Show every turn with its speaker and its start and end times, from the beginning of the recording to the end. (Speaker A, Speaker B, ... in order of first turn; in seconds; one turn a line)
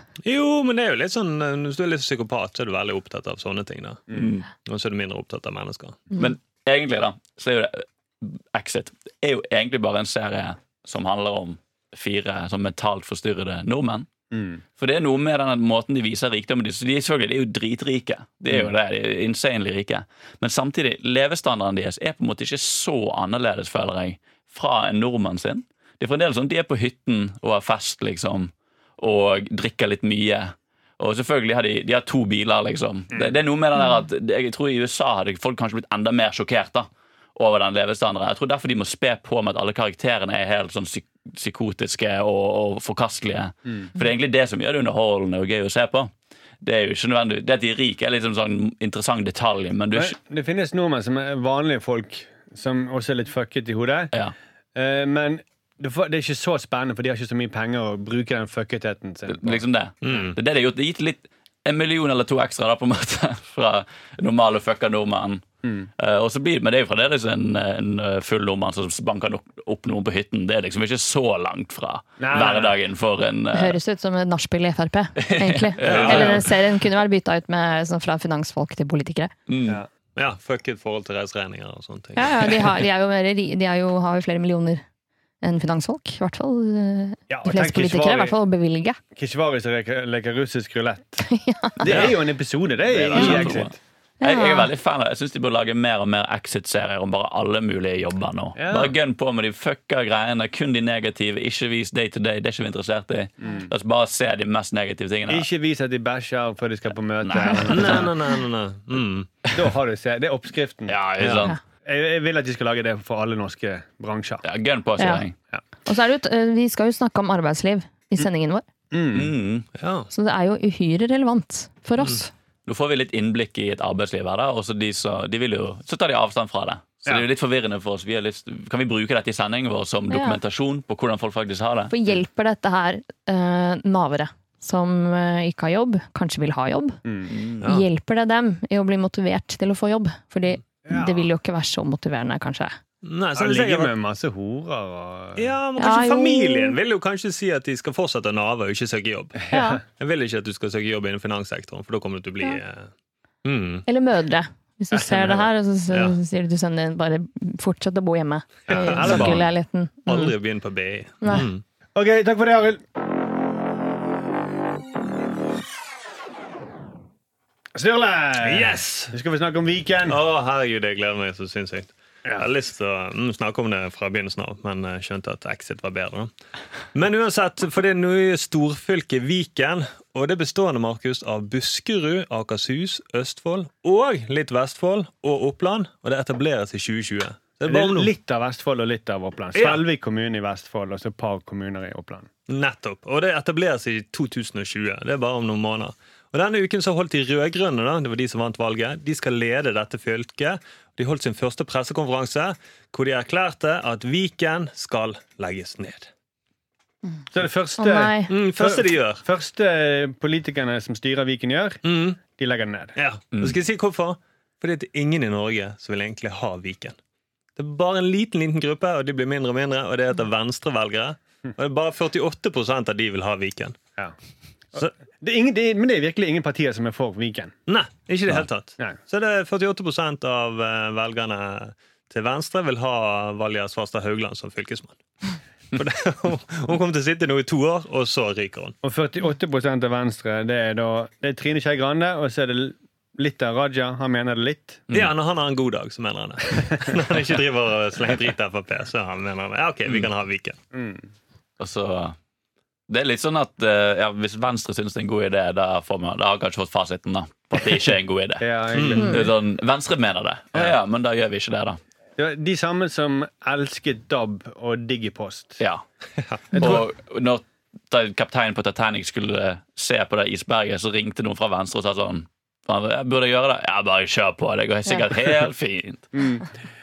Speaker A: 0.2-6.1
Speaker B: 4.1-4.5
Speaker B: 6.1-14.1
Speaker C: 14.3-14.6
Speaker B: 14.8-50.1
Speaker C: 49.9-54.1
Speaker C: 54.8-59.6
Speaker B: 59.3-65.5
Speaker A: 60.0-60.4
Speaker B: 66.0-73.8
Speaker C: 72.2-72.8
Speaker D: 73.5-79.3
Speaker B: 75.2-76.5
Speaker A: 75.8-76.5
Speaker B: 79.5-79.8
Speaker A: 80.2-82.8
Speaker D: 82.2-84.8
Speaker D: 85.4-89.0
Speaker C: 87.3-88.4
Speaker C: 89.2-91.2
Speaker D: 91.2-91.9
Speaker C: 91.8-93.8
Speaker A: 91.9-92.1
Speaker B: 92.9-105.5
Speaker D: 94.2-94.7
Speaker C: 98.6-99.0
Speaker C: 103.4-103.7
Speaker C: 105.3-108.1
Speaker B: 107.2-108.1
Speaker A: 107.7-109.3
Speaker C: 109.5-111.3
Speaker B: 110.9-111.6
Speaker A: 111.2-111.5
Speaker C: 111.8-114.4
Speaker B: 114.4-115.3
Speaker D: 115.0-115.2
Speaker D: 115.8-118.7
Speaker C: 118.9-119.3
Speaker B: 119.1-119.7
Speaker A: 119.8-120.1
Speaker D: 120.1-122.3
Speaker B: 122.7-131.9
Speaker D: 130.1-130.4
Speaker D: 131.9-137.0
Speaker C: 137.1-137.3
Speaker B: 137.3-137.7
Speaker D: 137.6-142.8
Speaker C: 140.9-141.3
Speaker A: 143.0-143.9
Speaker C: 143.3-145.5
Speaker A: 145.4-152.9
Speaker D: 145.8-146.8
Speaker C: 149.5-149.8
Speaker D: 149.5-149.8
Speaker A: 153.4-153.9
Speaker D: 153.9-160.3
Speaker C: 154.9-155.5
Speaker A: 155.9-156.2
Speaker C: 158.7-159.5
Speaker A: 158.7-159.4
Speaker A: 160.1-161.6
Speaker D: 161.2-161.5
Speaker C: 161.9-162.8
Speaker C: 167.8-170.2
Speaker A: 168.4-169.1
Speaker A: 170.1-176.3
Speaker A: 176.9-188.1
Speaker C: 187.7-192.3
Speaker A: 189.6-189.8
Speaker A: 192.5-206.1
Speaker C: 207.3-212.9
Speaker D: 207.8-208.3
Speaker A: 208.3-209.2
Speaker A: 211.8-212.2
Speaker A: 213.0-217.0
Speaker A: 217.6-223.8
Speaker C: 224.8-227.5
Speaker A: 227.7-235.0
Speaker A: 235.7-238.8
Speaker C: 238.8-244.8
Speaker A: 244.9-250.6
Speaker C: 250.7-251.1
Speaker B: 251.6-252.2
Speaker B: 252.9-261.8
Speaker C: 258.4-259.3
Speaker A: 258.7-259.1
Speaker C: 262.2-265.6
Speaker A: 266.3-266.6
Speaker B: 266.5-276.4
Speaker C: 266.5-266.8
Speaker C: 276.1-276.5